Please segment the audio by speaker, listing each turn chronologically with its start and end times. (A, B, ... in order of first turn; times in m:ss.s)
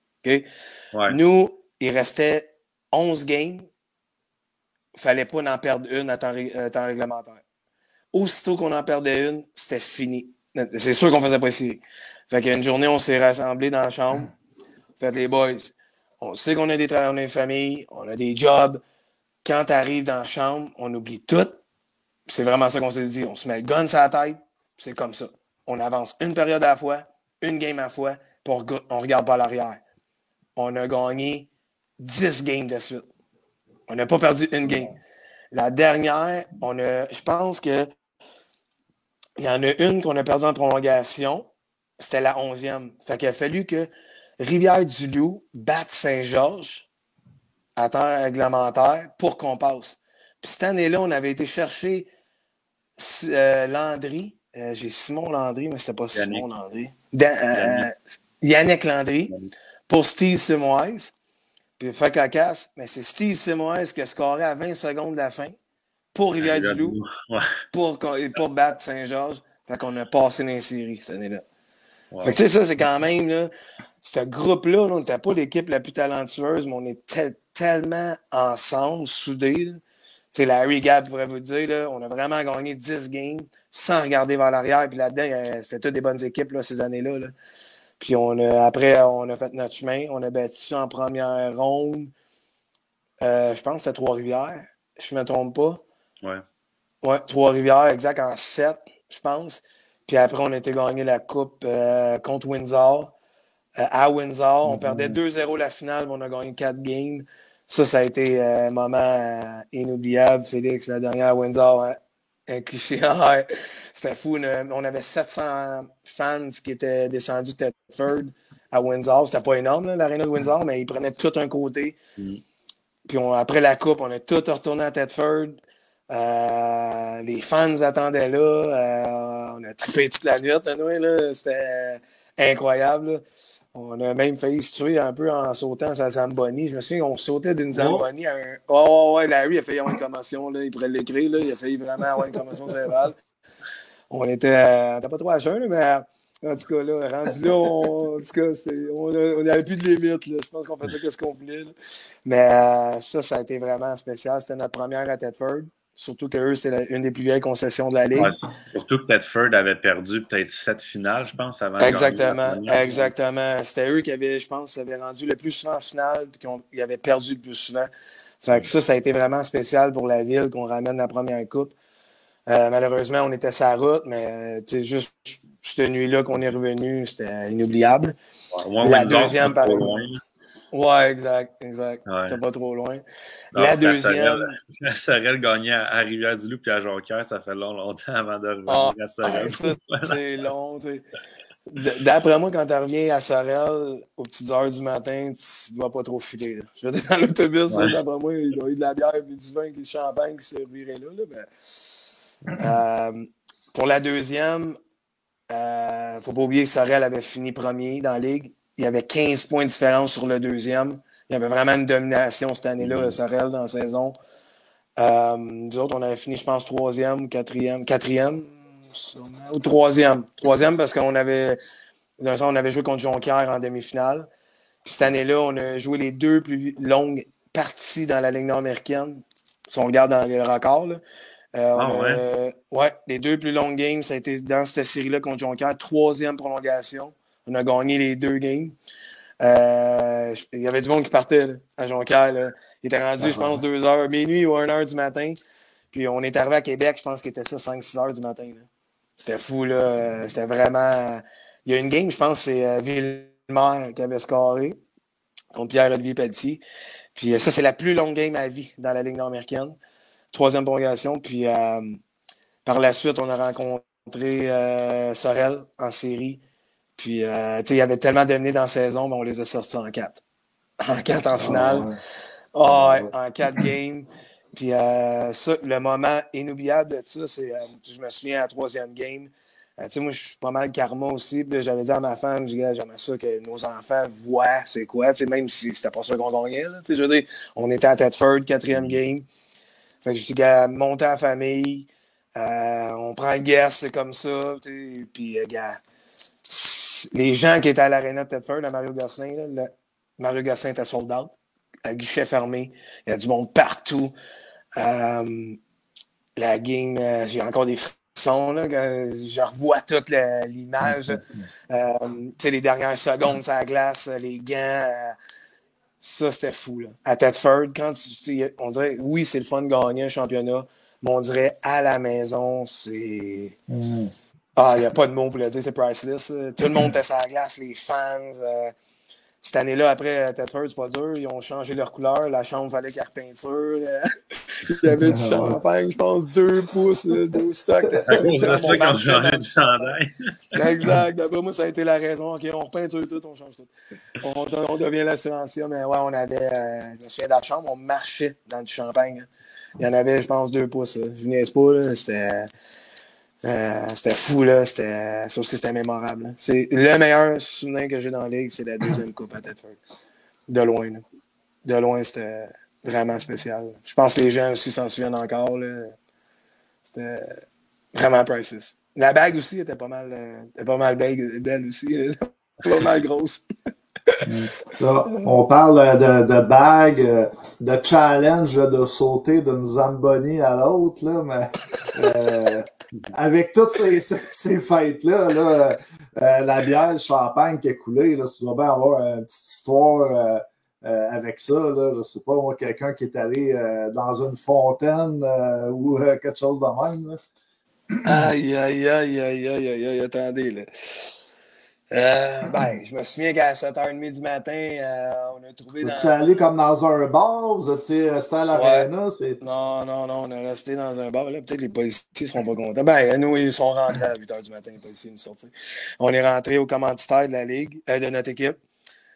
0:01.1-0:03.7 A
0:05.0-0:07.4 A
0:08.1-0:14.3 A
0:15.0-0:18.8 A
0:19.4-0:21.6 A
0:22.3-0:29.8 A
0:30.6-0:33.0 A
0:33.9-0:35.0 A
0:35.5-0:37.9 A
0:39.4-0:41.5 A
0:42.0-0:46.9 A
0:47.8-0:52.1 A
0:53.0-0:59.3 A
0:56.1-0:56.5 B
0:57.5-0:57.9 B
0:59.9-1:01.1 A
1:01.8-1:05.6 A
1:06.1-1:07.0 A
1:06.4-1:07.6 B
1:07.7-1:11.4 A
1:12.1-1:12.4 B
1:12.2-1:19.8 A
1:20.3-1:27.3 A
1:28.0-1:32.1 A
1:33.2-1:35.8 A
1:37.0-1:43.1 A
1:43.8-2:02.0 A
1:44.6-1:45.2 C
2:02.2-2:02.4 B
2:03.1-2:13.2 A
2:13.7-2:23.2 A
2:17.7-2:18.1 C
2:24.1-2:31.7 A
2:32.2-2:38.3 A
2:38.1-2:43.1 B
2:41.8-2:47.9 A
2:48.4-2:51.7 A
2:52.5-2:58.2 A
2:58.5-3:00.2 B
2:58.8-3:00.0 A
3:00.7-3:03.0 A
3:02.1-3:02.4 B
3:03.5-3:04.5 A
3:03.5-3:10.2 B
3:08.7-3:11.0 A
3:11.7-3:22.0 A
3:17.7-3:18.0 B
3:22.6-3:24.8 A
3:25.5-3:34.2 A
3:32.8-3:33.1 B
3:35.0-3:41.6 A
3:42.2-3:44.3 A
3:44.8-3:51.0 A
3:51.5-3:58.8 A
3:51.7-3:52.2 B
3:59.4-4:05.4 A
4:05.9-4:08.7 A
4:09.2-4:14.8 A
4:15.5-4:16.6 A
4:17.2-4:19.8 A
4:20.3-4:22.0 A
4:22.6-4:26.4 A
4:27.0-4:30.2 A
4:30.8-4:31.9 A
4:31.4-4:32.0 C
4:32.5-4:49.2 A
4:32.6-4:33.6 C
4:50.0-4:55.8 A
4:56.5-5:01.3 A
5:01.8-5:04.1 A
5:04.8-5:05.6 A
5:06.4-5:15.2 A
5:16.0-5:23.6 A
5:23.7-5:24.1 C
5:24.6-5:28.7 A
5:29.4-5:39.9 A
5:34.8-5:35.6 C
5:37.9-5:38.2 C
5:38.1-5:40.6 B
5:40.5-5:52.5 A
5:53.4-5:59.8 A
6:00.5-6:01.0 A
6:01.6-6:05.9 A
6:06.8-6:13.4 A
6:14.2-6:37.2 C
6:38.0-6:41.2 A
6:41.9-6:46.1 A
6:45.8-6:49.4 C
6:48.5-6:48.9 A
6:49.4-6:58.6 A